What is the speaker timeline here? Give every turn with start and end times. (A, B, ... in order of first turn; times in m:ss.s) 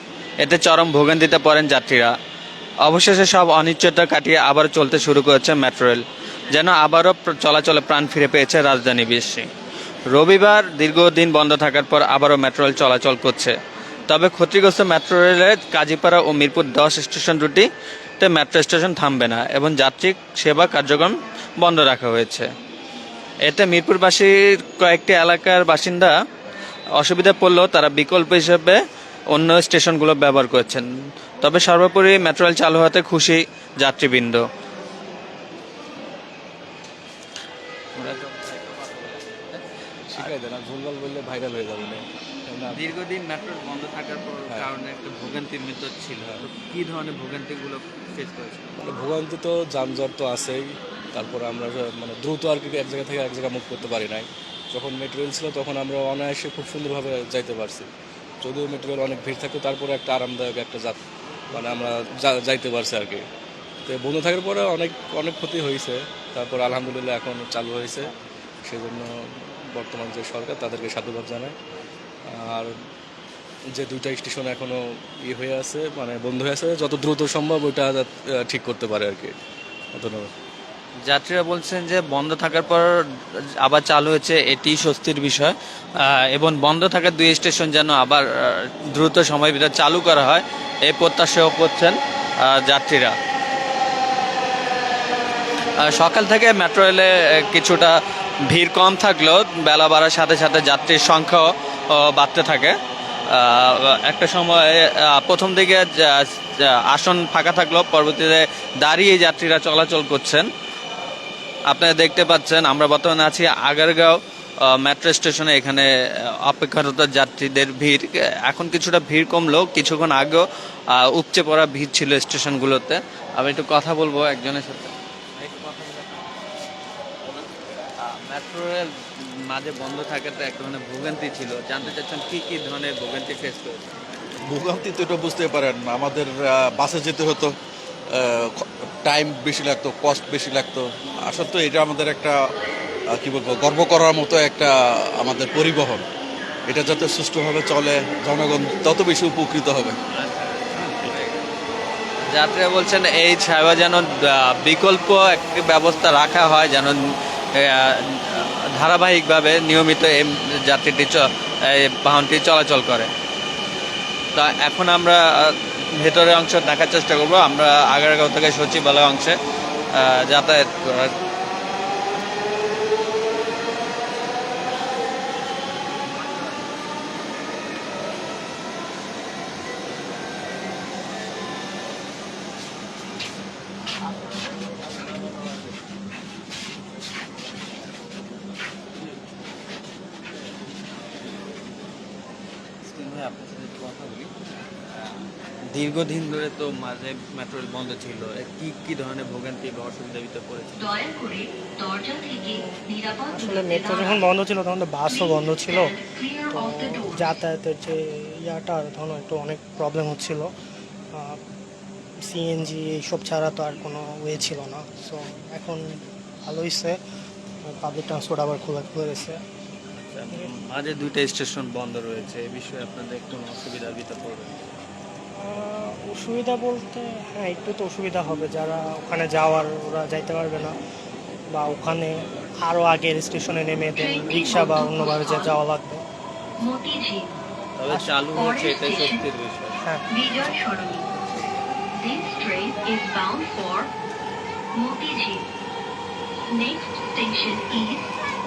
0:00.4-0:02.1 A
0:02.8-0:09.5 A
0:10.1-0:13.5 A
0:14.1-0:17.7 A
0:18.2-0:22.5 A
0:23.5-0:26.2 A
0:27.0-0:28.8 A
0:29.3-0:30.9 A
0:31.4-0:34.4 A
0:38.0-0:39.6 A
0:40.1-0:42.8 B
0:42.8-0:48.7 A
0:48.8-0:57.9 B
0:58.4-1:01.0 B
1:01.5-1:03.2 B
1:03.8-1:08.1 B
1:08.7-1:11.6 B
1:12.3-1:12.7 B
1:13.8-1:19.4 B
1:19.9-1:20.3 B
1:21.1-1:22.8 A
1:23.6-1:33.2 A
1:35.8-1:38.0 A
1:38.5-1:42.7 A
1:43.3-1:50.5 A
1:51.7-1:55.9 A
1:56.5-2:00.4 A
2:01.0-2:04.9 A
2:05.6-2:06.1 A
2:08.0-2:08.9 A
2:09.5-2:13.9 A
2:14.5-2:17.5 C
2:18.1-2:22.4 C
2:23.2-2:26.0 C
2:26.7-2:30.0 C
2:30.2-2:31.4 A
2:32.3-2:37.0 A
2:37.6-2:43.1 A
2:44.3-2:49.4 A
2:50.0-2:51.1 A
3:12.9-3:14.3 A
3:15.7-3:20.9 A
3:20.8-3:24.3 D
3:23.3-3:26.0 E
3:25.0-3:27.3 D
3:26.5-3:30.5 E
3:32.3-3:37.0 E
3:37.8-3:39.4 E
3:40.0-3:44.6 A
3:45.4-3:50.8 E
3:51.5-3:56.0 E
3:54.0-3:55.6 D
3:56.6-3:57.3 D
3:57.8-3:59.8 A
3:58.4-3:59.2 D
4:00.1-4:01.1 D
4:02.0-4:03.9 D
4:04.8-4:05.5 D
4:06.5-4:08.1 D